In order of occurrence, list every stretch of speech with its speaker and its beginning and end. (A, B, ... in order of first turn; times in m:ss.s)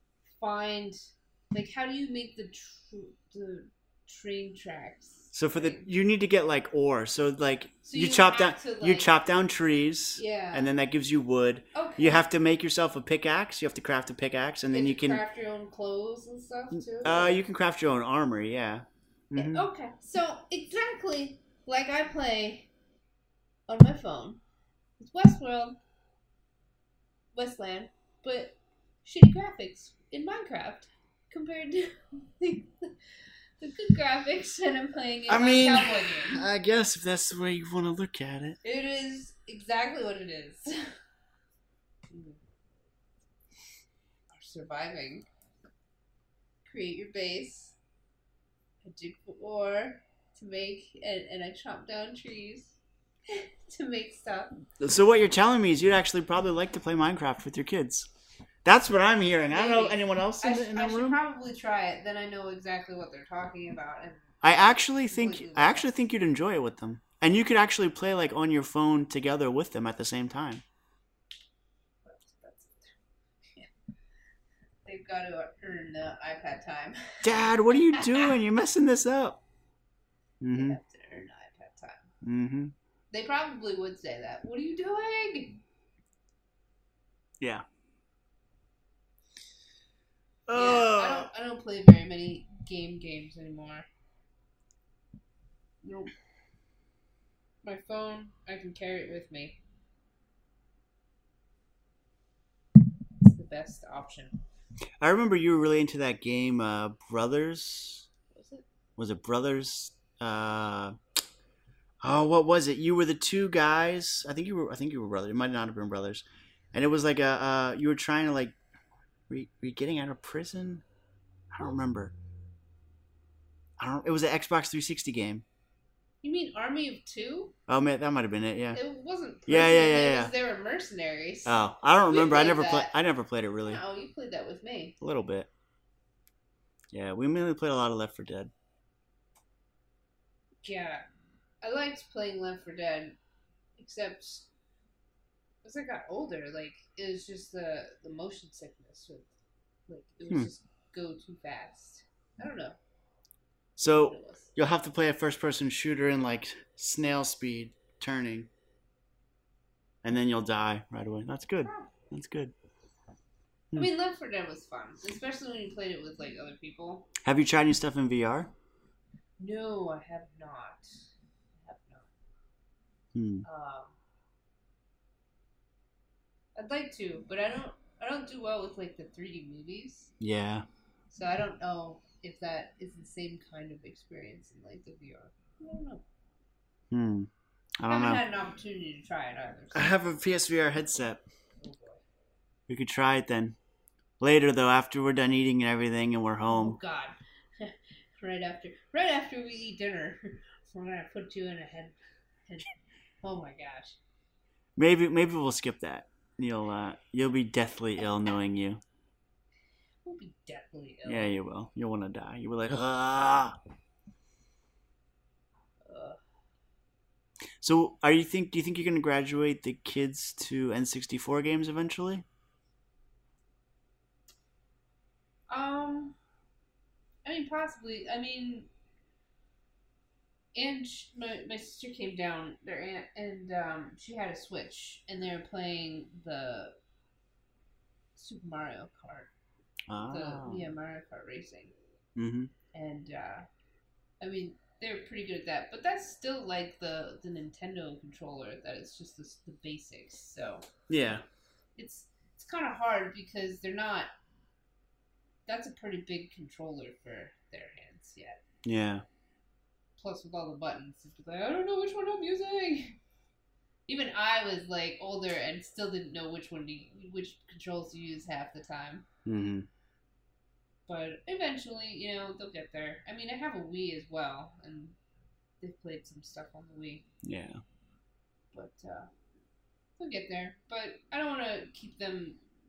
0:00.4-0:05.8 A
0:05.3-0:15.2 B
0:07.8-0:09.1 A
0:10.2-0:10.7 A
0:11.7-0:12.2 A
0:14.7-0:17.4 A
0:16.7-0:19.7 B
0:19.4-0:22.7 A
0:23.7-0:24.4 A
0:25.0-0:25.8 A
0:27.3-0:33.0 A
0:33.6-0:36.4 A
0:35.3-0:38.6 B
0:38.6-0:40.9 A
0:42.1-0:42.4 A
0:44.3-0:45.2 A
0:46.6-0:47.8 A
0:48.8-0:54.6 A
0:54.8-0:58.1 B
0:58.6-1:01.2 B
0:59.5-1:05.9 A
1:04.4-1:10.6 B
1:12.0-1:12.9 A
1:14.8-1:18.3 A
1:17.2-1:19.4 B
1:20.4-1:20.8 B
1:20.5-1:22.1 A
1:22.2-1:22.7 B
1:23.1-1:25.6 A
1:30.5-1:31.3 B
1:30.5-1:33.9 A
1:35.8-1:36.1 A
1:37.6-1:39.6 A
1:43.2-1:44.4 A
1:45.0-1:48.1 B
1:48.3-1:48.6 A
1:49.0-1:51.0 B
1:52.0-1:58.6 B
1:59.3-2:00.8 B
2:01.5-2:02.1 B
2:03.8-2:05.4 B
2:06.2-2:07.5 A
2:07.7-2:08.8 B
2:08.7-2:12.9 A
2:09.5-2:10.3 B
2:11.4-2:13.8 B
2:13.6-2:15.0 A
2:15.0-2:15.5 B
2:16.9-2:18.5 B
2:20.6-2:21.0 A
2:21.6-2:23.2 A
2:23.8-2:24.5 A
2:25.6-2:29.3 A
2:29.9-2:32.8 A
2:33.8-2:38.5 B
2:33.8-2:34.5 A
2:40.0-2:42.5 B
2:41.6-2:42.0 A
2:43.7-2:47.1 A
2:47.2-2:48.5 B
2:49.4-2:50.9 A
2:51.6-2:52.1 A
2:53.1-2:53.4 B
2:53.4-2:53.9 A
2:56.5-3:00.1 A
3:00.2-3:00.7 B
3:01.1-3:06.0 A
3:06.9-3:08.2 B
3:07.9-3:10.0 A
3:09.7-3:11.2 B
3:11.6-3:12.0 A
3:12.7-3:13.6 B
3:14.2-3:16.8 B
3:16.4-3:22.0 A
3:23.2-3:24.0 A
3:24.8-3:28.8 B
3:30.0-3:31.3 A
3:31.0-3:33.6 B
3:35.8-3:36.2 A
3:37.6-3:42.2 B
3:45.5-3:46.2 A
3:47.2-3:48.7 A
3:50.5-3:56.8 A
3:58.2-3:59.3 A
3:59.9-4:00.7 B
4:00.0-4:01.7 A
4:02.2-4:02.5 B
4:02.7-4:03.4 A
4:04.2-4:10.7 A
4:10.9-4:11.2 B
4:11.8-4:14.1 A
4:15.5-4:18.4 A
4:18.6-4:19.0 B
4:20.0-4:23.0 A
4:23.9-4:29.0 A
4:29.2-4:29.7 B
4:30.9-4:35.0 A
4:35.6-4:37.0 A
4:37.2-4:37.6 B
4:38.5-4:39.1 A
4:40.0-4:42.4 A